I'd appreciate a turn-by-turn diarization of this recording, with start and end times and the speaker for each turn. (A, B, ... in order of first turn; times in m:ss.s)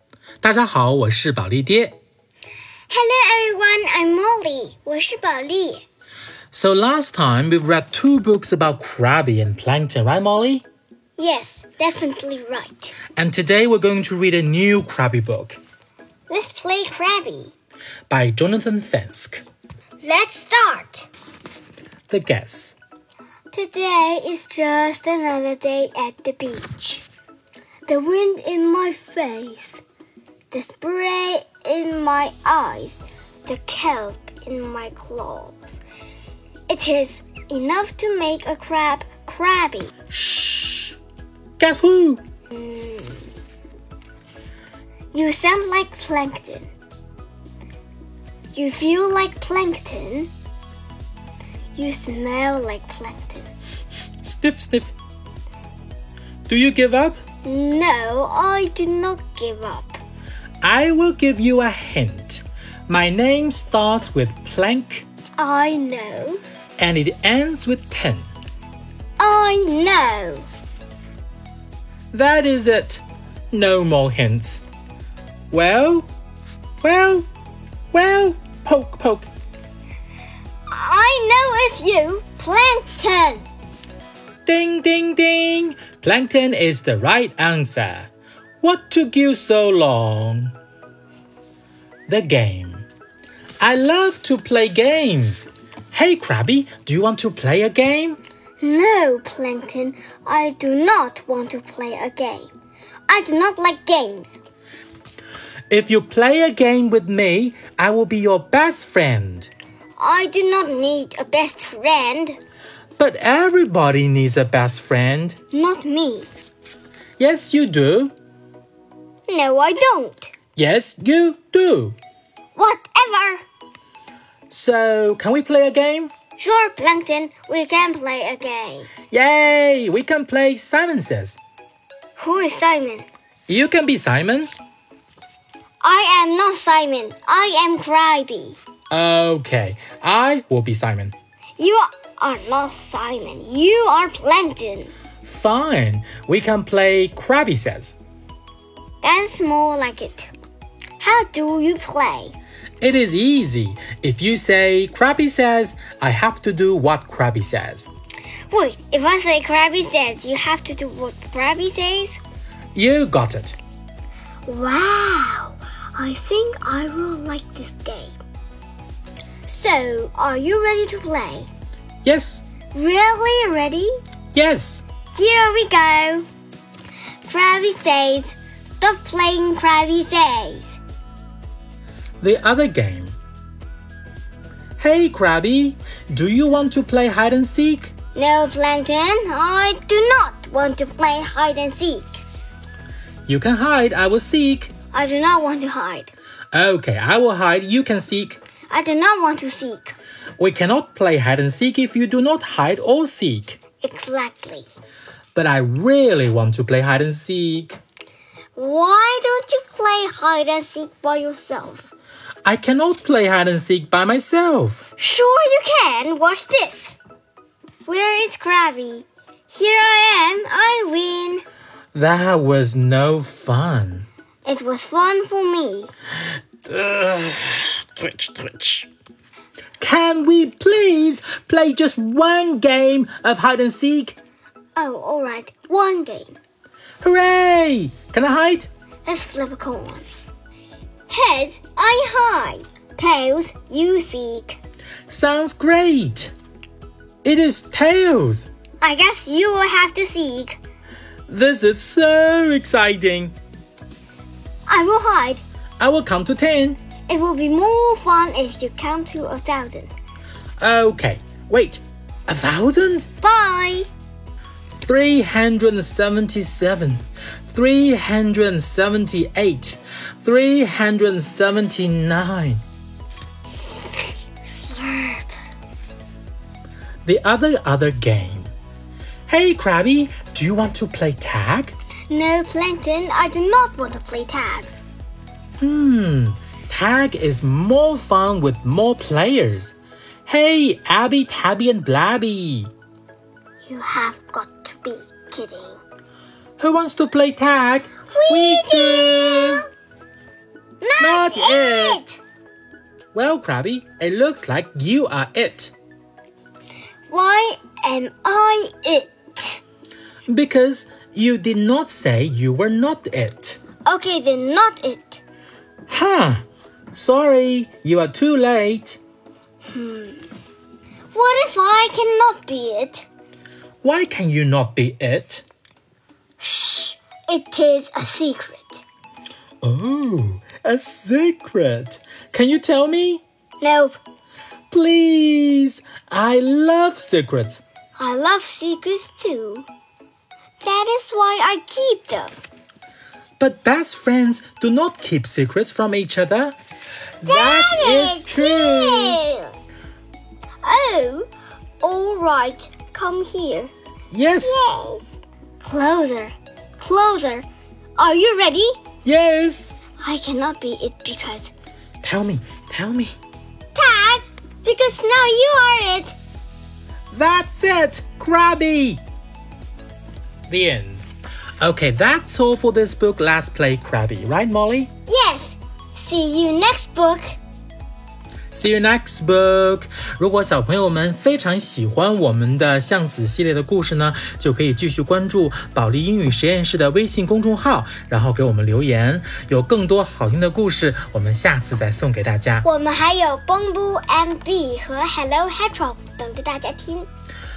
0:00.4-0:02.0 A
0:02.9-0:05.8 B
0:06.5-0:10.6 A
0:11.2-0:13.0 B
0:13.1-0:15.6 A
0:16.3-0:17.5 B
0:18.1-0:19.4 A
0:20.0-0:21.1 B
0:22.1-0:22.8 A
0:23.5-0:27.0 B
0:27.9-0:29.8 B
0:30.5-0:35.6 B
0:36.7-0:39.9 B
0:40.1-0:41.0 A
0:41.6-0:42.2 A
0:42.5-0:43.3 B
0:45.1-0:46.7 B
0:48.5-0:50.3 B
0:51.8-0:53.5 B
0:54.2-0:54.9 A
0:56.5-0:57.2 A
0:57.4-1:00.0 B
1:00.6-1:05.0 A
1:05.4-1:06.4 B
1:06.8-1:08.3 A
1:09.2-1:10.4 B
1:12.1-1:14.6 A
1:15.5-1:16.1 A
1:16.8-1:17.3 A
1:17.9-1:19.3 A
1:20.7-1:23.4 B
1:24.5-1:28.1 A
1:28.6-1:30.5 A
1:32.1-1:32.8 A
1:33.6-1:38.2 A
1:38.6-1:42.5 B
1:43.1-1:44.4 B
1:45.7-1:49.5 A
1:50.0-1:52.4 B
1:53.0-1:55.4 A
1:55.5-1:56.3 B
1:57.2-1:58.1 A
1:59.3-2:00.3 B
2:00.6-2:02.0 A
2:02.6-2:03.4 B
2:04.5-2:06.1 A
2:06.4-2:08.9 B
2:09.1-2:11.4 A
2:12.2-2:13.0 B
2:13.5-2:14.5 A
2:15.8-2:18.6 B
2:18.9-2:21.2 A
2:21.6-2:24.9 B
2:25.2-2:28.0 A
2:29.0-2:30.3 B
2:31.0-2:32.4 B
2:32.8-2:37.9 A
2:38.5-2:42.2 B
2:42.8-2:43.6 A
2:44.5-2:48.2 B
2:49.5-2:51.5 B
2:52.0-2:52.4 A
2:52.7-2:54.0 B
2:54.3-2:54.8 A
2:55.1-2:56.3 B
2:57.2-3:00.7 B
3:02.2-3:03.2 A
3:04.8-3:07.9 A
3:08.2-3:12.2 B
3:13.3-3:14.7 A
3:14.9-3:16.1 B
3:16.5-3:18.4 A
3:18.7-3:20.0 B
3:20.4-3:23.6 A
3:23.8-3:24.7 B
3:25.4-3:27.8 A
3:28.6-3:31.9 B
3:32.4-3:34.8 A
3:35.0-3:37.0 B
3:37.9-3:41.4 B
3:41.9-3:44.1 A
3:44.4-3:45.9 B
3:46.6-3:48.9 A
3:49.8-3:54.2 A
3:54.8-3:56.4 B
3:57.0-3:58.7 A
3:59.1-4:00.0 B
4:01.1-4:04.6 B
4:05.1-4:06.3 A
4:07.2-4:08.5 A
4:08.8-4:10.6 B
4:11.3-4:13.3 A
4:14.7-4:15.4 B
4:15.8-4:16.8 A
4:17.1-4:19.9 B
4:20.6-4:23.1 A
4:23.2-4:23.9 B
4:24.8-4:32.6 A
4:33.5-4:35.4 B
4:37.0-4:38.5 A
4:39.3-4:41.7 A
4:42.1-4:44.7 B
4:45.6-4:49.7 A
4:50.3-4:52.7 A
4:53.7-4:55.8 B
4:56.6-4:59.6 A
4:58.1-4:59.6 B
5:00.8-5:02.2 B
5:01.0-5:02.0 A
5:03.1-5:05.7 A
5:07.1-5:09.6 B
5:10.3-5:13.6 A
5:13.9-5:15.2 B
5:15.9-5:16.4 A
5:16.9-5:19.0 A
5:19.7-5:20.3 B
5:21.1-5:23.0 B
5:23.8-5:25.4 A
5:26.4-5:28.8 B
5:29.6-5:33.2 A
5:33.6-5:34.0 B
5:34.7-5:37.6 A
5:38.0-5:39.7 B
5:40.6-5:42.4 B
5:43.4-5:46.6 A
5:47.2-5:49.2 A
5:47.2-5:49.5 B
5:50.6-5:51.3 B
5:51.8-5:53.7 B
5:54.1-5:54.6 A
5:54.4-5:55.0 B
5:55.6-5:57.5 B
5:58.0-5:58.8 B
5:59.0-5:59.8 A
6:00.0-6:01.5 B
6:02.0-6:03.2 A
6:03.8-6:06.2 B
6:07.1-6:09.0 A
6:10.5-6:11.0 A
6:11.6-6:14.9 A
6:15.1-6:17.4 B
6:18.5-6:32.7 A
6:32.6-6:37.1 B